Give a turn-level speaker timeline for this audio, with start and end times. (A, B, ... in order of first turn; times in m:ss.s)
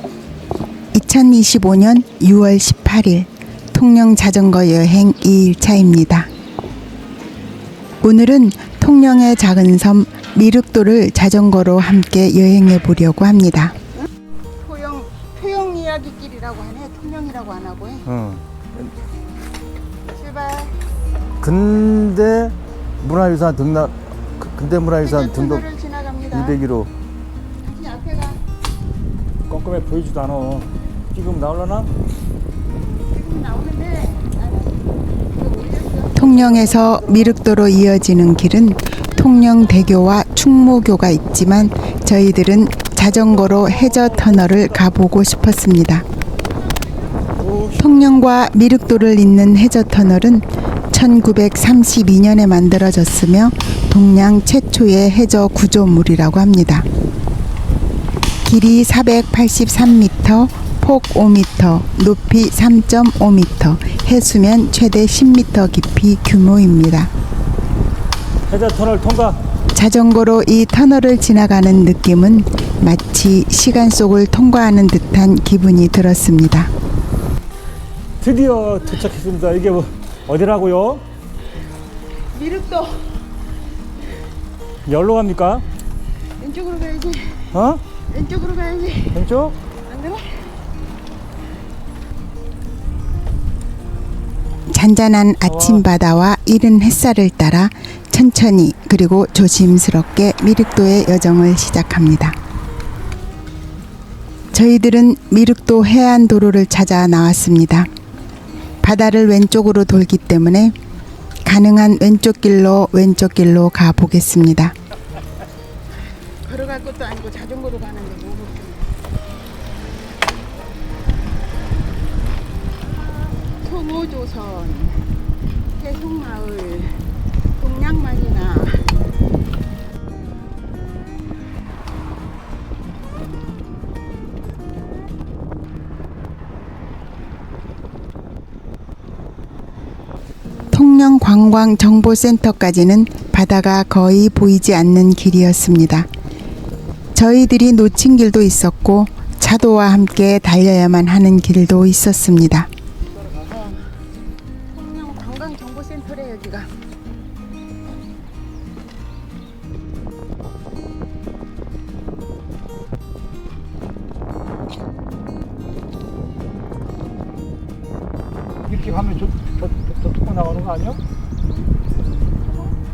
0:00.9-0:06.3 A
0:08.0-0:13.8 A
0:14.6-0:18.1 B
0:18.1-0:18.9 C
0:20.0-0:20.7 B
0:21.4-0:25.6 C
0:24.9-0:26.6 B
0:26.3-0:26.9 C
0:27.6-0:28.4 B
0:29.5-0:31.9 C
0:33.1-0:36.3 B
0:36.2-0:46.0 A
0:36.2-0:37.4 C
0:43.0-0:44.9 C
0:47.4-0:47.8 C
0:47.7-0:56.9 A
0:58.4-1:07.1 A
1:08.5-1:09.4 C
1:09.7-1:16.7 A
1:18.2-1:21.0 C
1:22.3-1:23.1 B
1:24.8-1:25.6 C
1:26.4-1:29.3 B
1:27.5-1:27.8 C
1:29.1-1:29.6 C
1:29.8-1:30.5 B
1:34.7-1:42.4 A
1:35.4-1:35.8 C
1:44.5-1:47.9 A
1:48.8-1:50.7 A
1:51.4-1:54.7 A
1:56.4-1:58.9 B
2:03.5-2:05.1 B
2:05.7-2:09.0 B
2:20.7-2:26.1 A
2:27.1-2:32.7 A
2:33.5-2:33.9 B
2:34.7-2:36.7 B
2:48.6-2:51.0 C